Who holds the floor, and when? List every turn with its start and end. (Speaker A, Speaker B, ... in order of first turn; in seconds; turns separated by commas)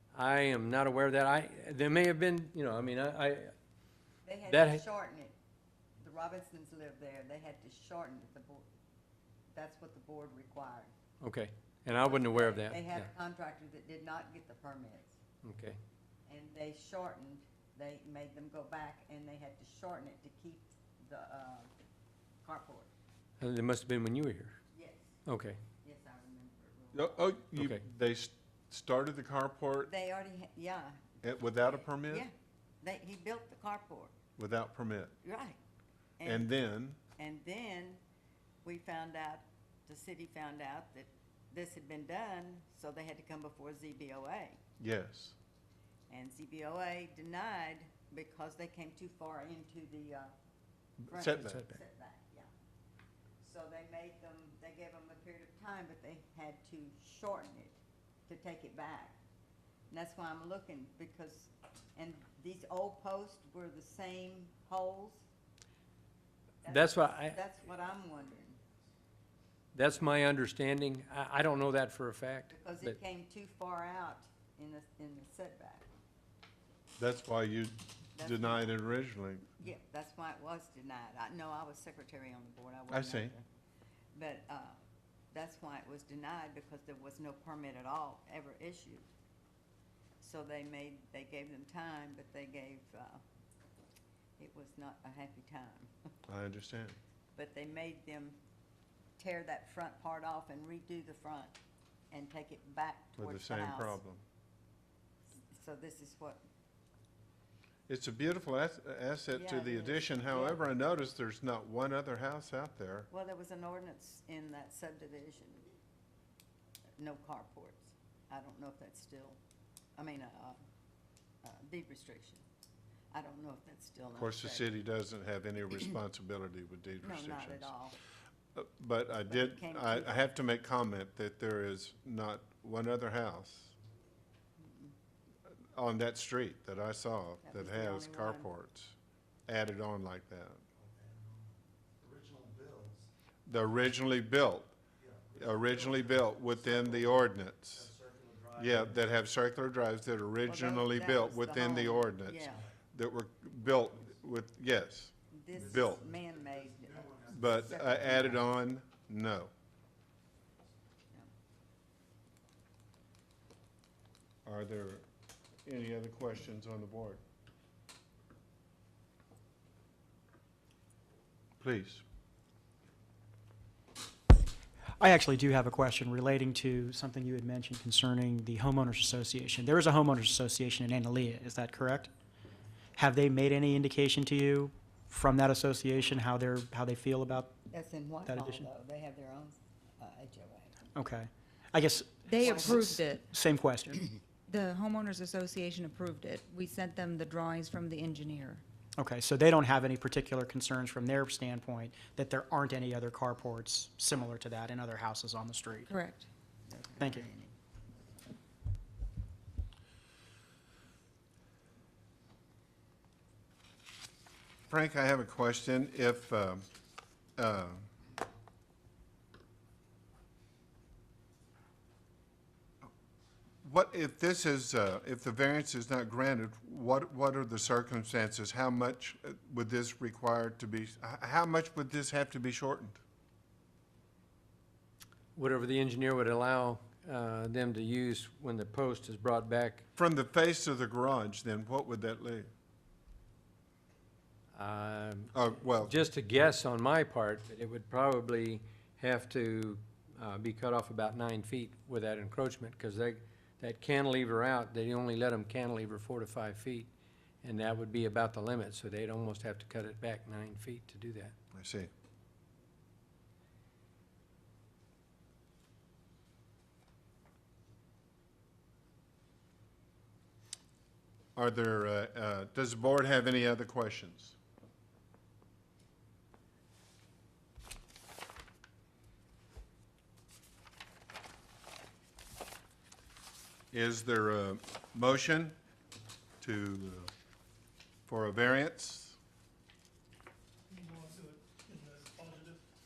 Speaker A: 0.1-3.5, Speaker B: 4.2-5.3, Speaker A: 4.5-4.8, Speaker B: 6.0-8.7, Speaker B: 9.5-10.9, Speaker A: 11.2-13.1, Speaker B: 12.0-15.2, Speaker A: 15.4-15.8, Speaker B: 16.3-21.7, Speaker B: 22.4-22.9, Speaker A: 23.4-24.6, Speaker B: 24.7-25.2, Speaker A: 25.2-25.6, Speaker B: 25.8-27.3, Speaker C: 26.9-29.9, Speaker A: 27.5-27.8, Speaker B: 29.8-34.1, Speaker C: 31.2-32.2, Speaker C: 34.4-35.1, Speaker B: 35.2-35.6, Speaker B: 36.2-36.5, Speaker C: 36.2-37.0, Speaker B: 37.2-38.0, Speaker B: 38.6-44.6, Speaker C: 44.8-45.4, Speaker B: 46.1-50.3, Speaker C: 51.0-51.7, Speaker B: 51.1-52.5, Speaker B: 53.4-57.8, Speaker B: 58.3-59.2, Speaker B: 59.9-65.2, Speaker B: 66.6-68.6, Speaker A: 66.7-67.4, Speaker A: 69.7-73.0, Speaker B: 72.5-75.8, Speaker C: 77.0-79.5, Speaker B: 78.2-78.7, Speaker B: 79.6-83.4, Speaker C: 82.9-83.3, Speaker B: 84.1-84.8, Speaker B: 85.3-89.0, Speaker B: 90.2-93.2, Speaker B: 94.4-95.9, Speaker C: 96.3-97.0, Speaker B: 97.3-98.3, Speaker B: 99.2-101.5, Speaker B: 102.1-104.0, Speaker C: 103.2-104.2, Speaker B: 105.5-106.4, Speaker C: 107.9-113.1, Speaker B: 109.3-110.6, Speaker B: 113.1-115.7, Speaker B: 117.0-119.4, Speaker B: 120.0-120.6, Speaker B: 121.4-122.4, Speaker B: 123.1-124.7, Speaker C: 124.1-127.7, Speaker B: 127.0-128.0, Speaker C: 128.5-133.7, Speaker B: 129.3-130.2, Speaker B: 134.6-134.9, Speaker C: 135.7-138.9, Speaker B: 137.4-138.5, Speaker C: 139.5-140.6, Speaker D: 140.8-143.1, Speaker C: 143.4-144.7, Speaker D: 145.0-147.1, Speaker C: 145.4-147.9, Speaker D: 147.8-148.9, Speaker C: 148.6-156.0, Speaker B: 150.4-152.6, Speaker B: 155.3-158.3, Speaker D: 155.8-158.2, Speaker C: 157.3-159.5, Speaker C: 164.4-165.0, Speaker C: 165.7-167.2, Speaker C: 171.6-172.0, Speaker E: 175.0-182.1, Speaker E: 182.9-187.5, Speaker B: 187.7-190.8, Speaker E: 188.2-188.7, Speaker E: 190.9-194.2, Speaker F: 192.3-193.3, Speaker B: 192.4-192.8, Speaker F: 194.5-198.6, Speaker E: 199.0-205.9, Speaker F: 205.9-206.3, Speaker B: 206.7-207.5, Speaker E: 207.0-207.3, Speaker C: 214.7-216.7, Speaker C: 217.4-217.8, Speaker C: 223.6-233.0, Speaker A: 235.3-239.8, Speaker C: 240.0-242.5, Speaker A: 244.5-256.9, Speaker C: 245.3-245.9, Speaker A: 257.4-261.3, Speaker C: 261.5-261.9, Speaker C: 271.4-274.4, Speaker C: 283.7-285.6, Speaker C: 286.4-287.1, Speaker C: 288.1-289.1